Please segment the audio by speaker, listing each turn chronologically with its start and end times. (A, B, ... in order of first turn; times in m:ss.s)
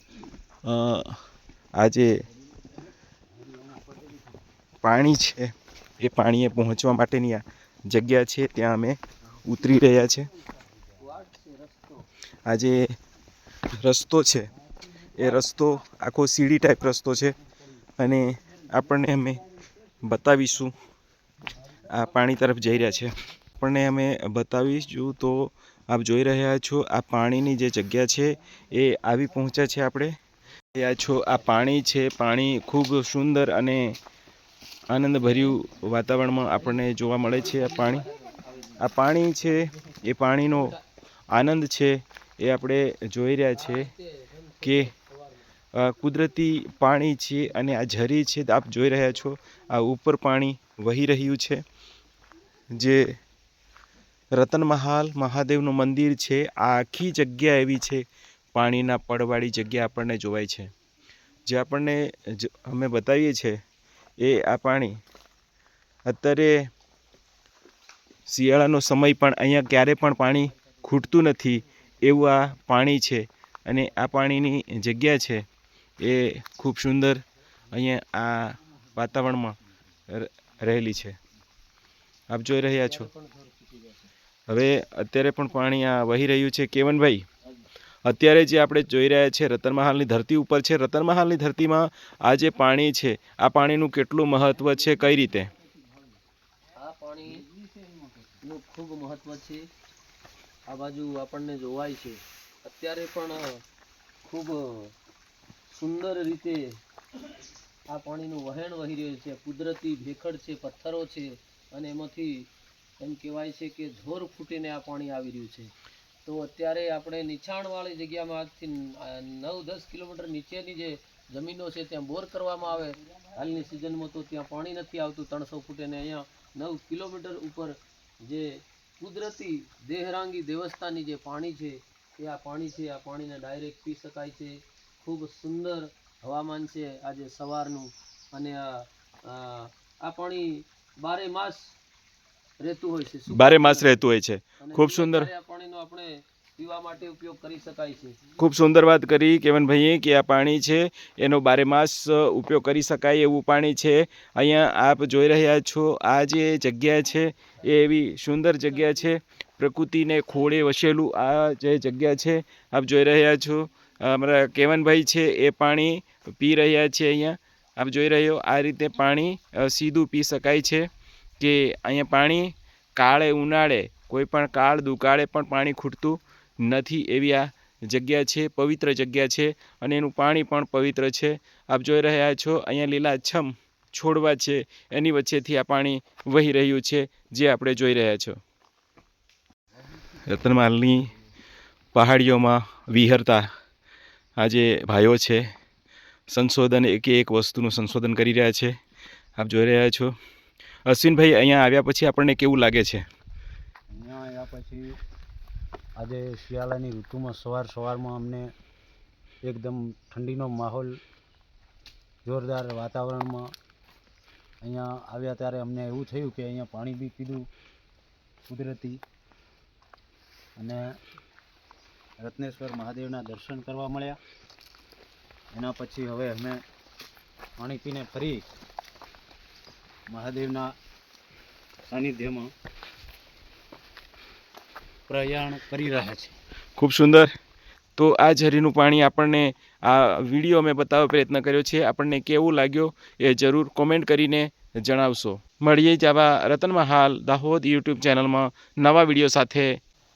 0:00.6-0:01.1 A
0:01.8-0:02.1 A
0:03.4-0:04.3 B
0:04.8-0:10.3 A
0:11.0-0:12.0 C
0:12.4-0:12.9 A
0:13.8-0:14.5 A
0:15.1-0:17.4 A
0:18.0-0:19.4 A
0:20.0-0:20.7 A
0:21.9-0:30.1 A
0:30.8-0:34.0 A
0:34.9-0:38.0 A
0:37.3-0:38.8 C
0:38.8-0:40.7 A
0:40.5-0:40.8 C
0:41.3-0:43.9 A
0:43.5-0:45.4 C
0:44.6-0:44.9 A
0:45.7-0:51.6 A
0:52.7-0:53.1 A
0:54.3-0:58.0 A
0:58.5-1:00.7 A
1:01.5-1:03.6 A
1:04.2-1:05.0 A
1:06.1-1:06.7 A
1:08.3-1:15.4 A
1:16.0-1:19.6 A
1:20.1-1:21.2 A
1:22.3-1:23.1 A
1:22.8-1:24.0 C
1:24.5-1:27.2 A
1:28.0-1:35.5 A
1:36.8-1:37.4 C
1:37.2-1:38.3 B
1:38.4-1:39.6 C
1:40.7-1:43.5 C
1:44.2-1:44.9 C
1:45.7-1:46.8 C
1:47.9-1:55.7 C
1:56.2-2:08.5 C
2:09.0-2:21.8 C
2:22.6-2:24.0 C
2:23.3-2:25.3 A
2:24.6-2:28.2 C
2:28.4-2:50.8 A
2:51.4-3:08.4 A
3:10.2-3:11.0 A
3:11.9-3:13.5 A
3:14.4-3:15.4 A
3:16.3-3:18.7 A
3:19.4-3:20.1 A
3:20.8-3:23.0 A
3:23.9-3:24.8 B
3:26.0-3:28.5 B
3:29.4-3:30.9 B
3:32.2-3:33.5 B
3:34.6-3:37.4 B
3:38.5-3:39.0 B
3:42.2-3:44.2 B
3:45.5-3:46.6 B
3:47.6-3:48.4 B
3:50.1-3:50.7 B
3:51.9-3:52.5 B
3:55.1-3:56.3 B
3:56.8-3:57.3 A
3:58.0-4:09.8 A